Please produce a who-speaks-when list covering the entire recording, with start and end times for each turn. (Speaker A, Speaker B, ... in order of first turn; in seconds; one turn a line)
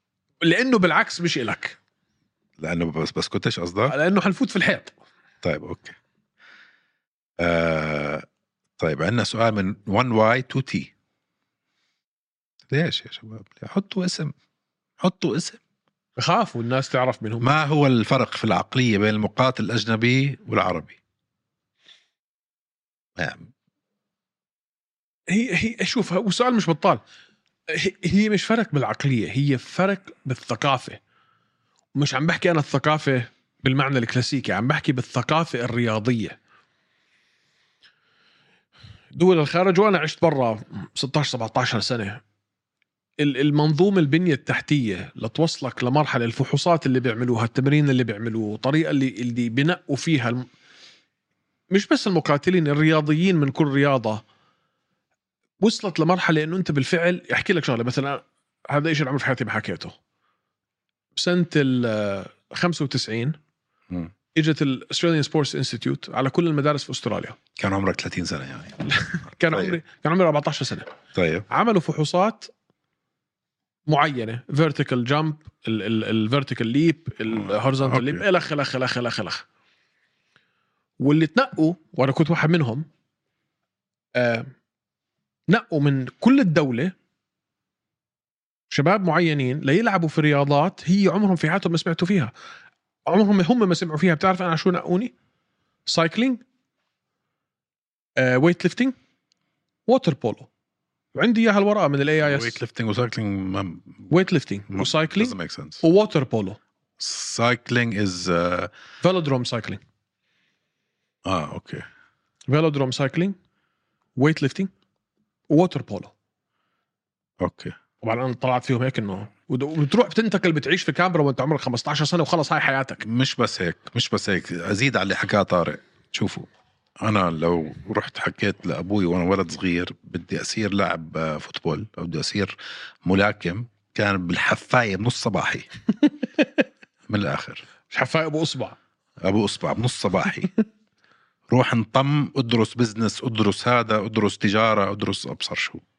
Speaker A: 0.4-1.8
Speaker B: 2.6-4.0
Speaker A: 3.9-4.9
Speaker B: 5.4-6.0
Speaker B: 7.4-8.3
Speaker B: 8.8-10.9
Speaker B: 12.7-14.3
Speaker B: 15.0-15.6
Speaker A: 16.2-17.5
Speaker B: 17.4-21.0
Speaker B: 23.2-23.5
Speaker A: 25.3-27.0
Speaker A: 27.7-31.0
Speaker A: 31.9-36.4
Speaker A: 39.1-42.2
Speaker A: 43.2-50.5
Speaker A: 51.7-54.2
Speaker A: 55.6-60.0
Speaker A: 61.1-63.4
Speaker A: 64.3-67.4
Speaker B: 67.6-68.8
Speaker A: 68.8-70.9
Speaker B: 69.5-69.8
Speaker B: 71.2-71.5
Speaker A: 71.5-72.5
Speaker A: 73.9-79.5
Speaker B: 77.3-78.2
Speaker A: 81.0-82.9
Speaker A: 84.2-84.5
Speaker A: 85.5-86.9
Speaker A: 88.7-92.3
Speaker A: 93.1-95.1
Speaker A: 95.9-96.4
Speaker A: 98.2-99.0
Speaker A: 99.9-100.5
Speaker A: 101.1-102.6
Speaker B: 102.2-104.1
Speaker A: 104.1-106.6
Speaker B: 104.7-105.8
Speaker B: 107.0-108.7
Speaker A: 109.0-109.8
Speaker B: 111.3-111.8
Speaker A: 112.5-113.4
Speaker A: 114.2-114.7
Speaker A: 115.5-116.1
Speaker B: 117.4-117.8
Speaker A: 118.0-123.0
Speaker B: 123.0-126.5
Speaker B: 127.0-135.7
Speaker B: 137.1-137.7
Speaker A: 137.9-138.8
Speaker B: 139.2-140.5
Speaker B: 141.5-145.8